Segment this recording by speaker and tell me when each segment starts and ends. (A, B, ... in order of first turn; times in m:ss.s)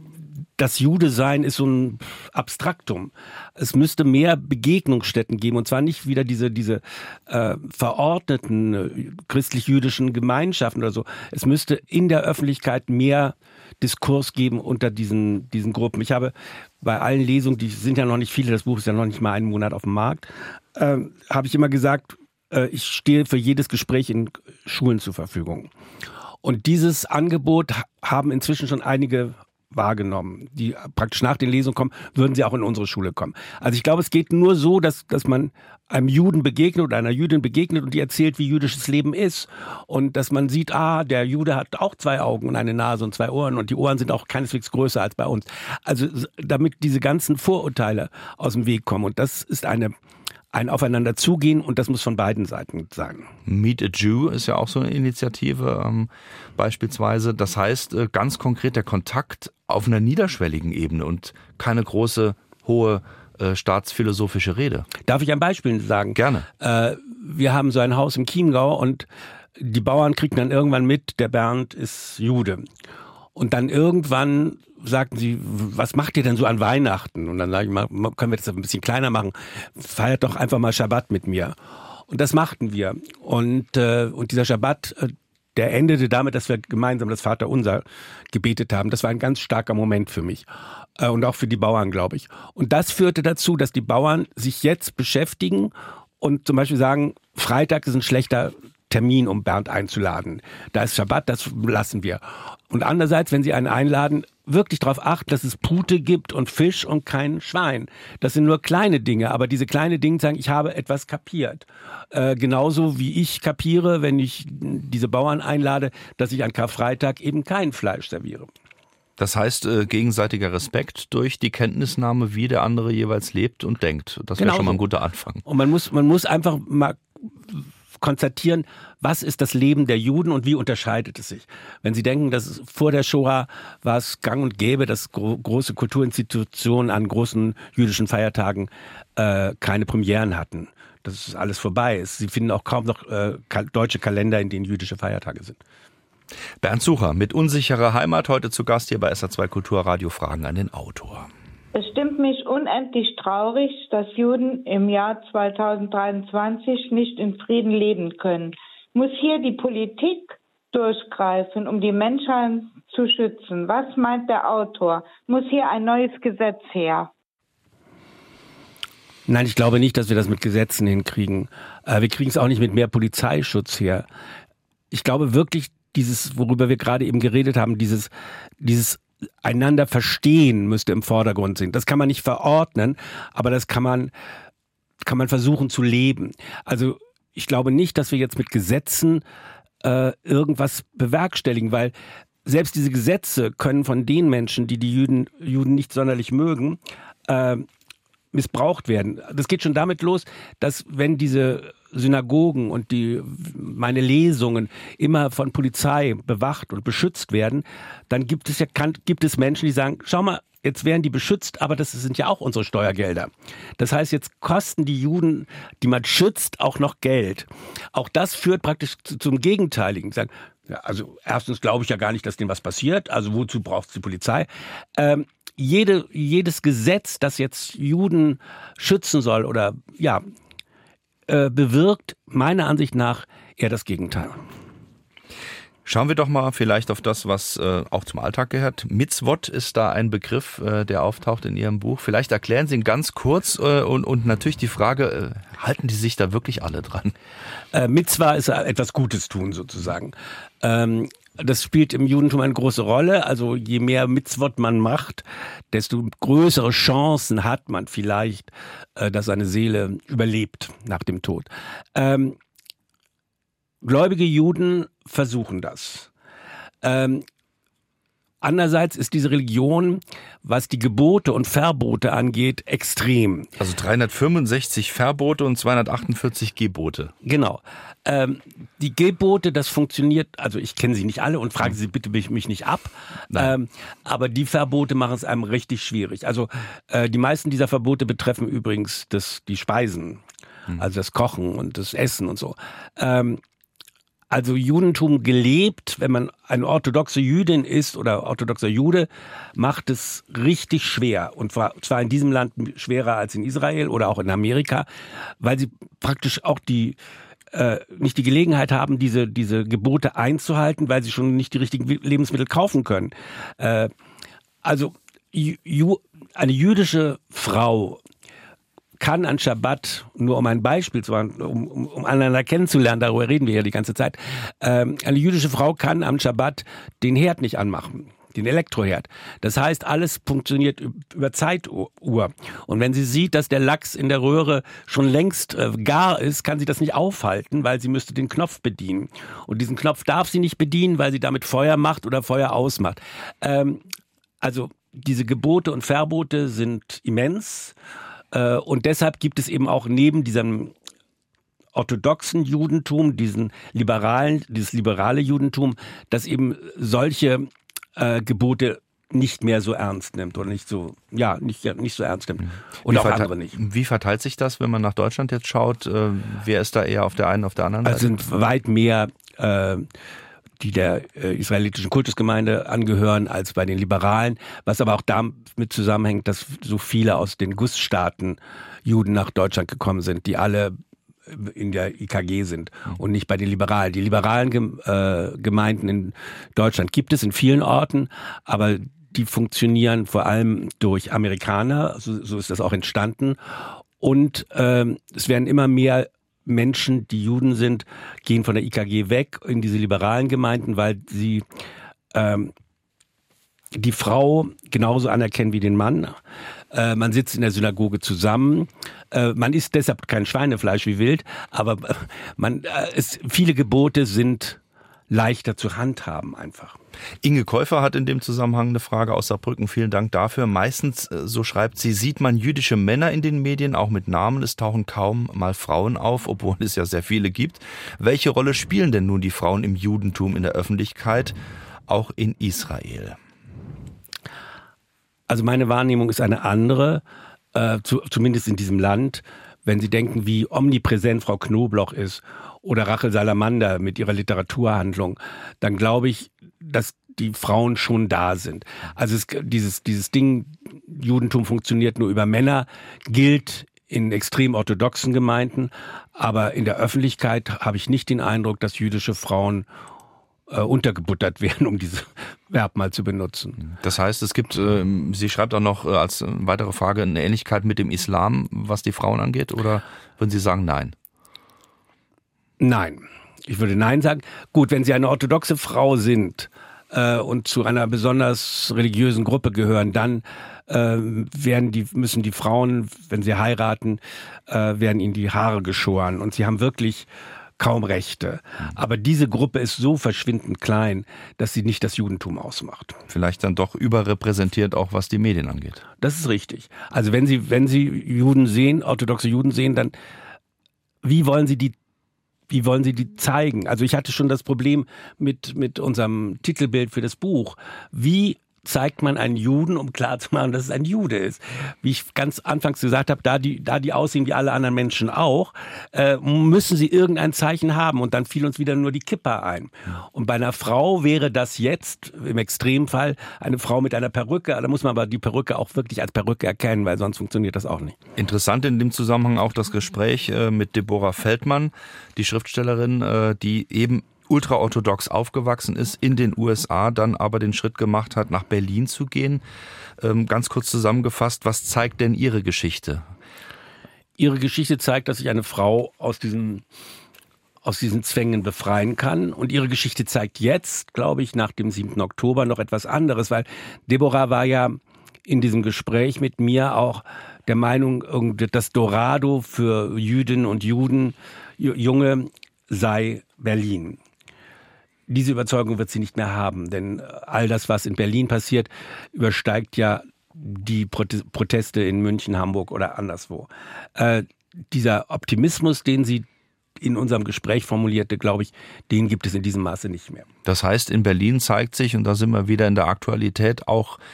0:00.6-0:25.7 A
0:26.4-0:49.9 A
0:50.5-0:53.3 A
0:53.5-1:04.9 B
1:05.0-1:09.1 A
1:06.2-1:06.5 B
1:09.6-1:12.7 A
1:13.4-1:21.6 A
1:22.1-1:30.4 A
1:31.0-1:58.5 A
1:59.2-2:05.4 B
2:04.4-2:04.8 A
2:05.4-2:25.6 A
2:26.6-2:31.3 B
2:31.8-2:47.1 C
2:49.3-2:54.1 A
2:54.9-2:58.1 A
2:58.6-3:04.1 A
3:05.0-3:09.2 A
3:09.8-3:11.9 A
3:12.4-3:17.7 A
3:18.3-3:50.2 A
3:51.3-3:54.4 A
3:55.9-4:07.2 B
4:07.7-4:22.4 A
4:23.8-4:26.1 A
4:26.8-4:27.2 A
4:28.4-4:33.5 A
4:33.6-4:37.1 B
4:37.2-4:50.2 A
4:50.8-4:53.4 A
4:54.3-5:04.9 A
5:05.4-5:07.0 A
5:07.5-5:13.9 A
5:14.6-5:18.0 A
5:19.0-5:43.8 A
5:44.4-5:47.7 A
5:48.3-5:50.7 A
5:51.8-6:03.6 A
6:02.9-6:08.2 B
6:07.8-6:09.9 A
6:10.6-6:33.4 A
6:34.0-6:41.4 A
6:42.1-6:42.5 A
6:43.7-6:46.2 A
6:46.7-6:56.8 A
6:57.2-7:11.4 B
7:11.9-7:13.2 B
7:15.3-7:17.0 A
7:17.5-7:39.7 A
7:40.5-7:43.6 A
7:43.6-7:51.0 B
7:52.6-8:07.1 A
8:07.6-8:13.0 A
8:13.1-8:15.8 B
8:16.0-8:19.9 A
8:21.0-8:21.8 A
8:22.5-8:48.0 A
8:48.2-8:59.4 B
9:00.0-9:03.0 B
9:04.2-9:06.6 A
9:07.6-9:24.0 A
9:25.1-9:36.3 A
9:36.8-9:40.3 A
9:40.5-9:44.0 B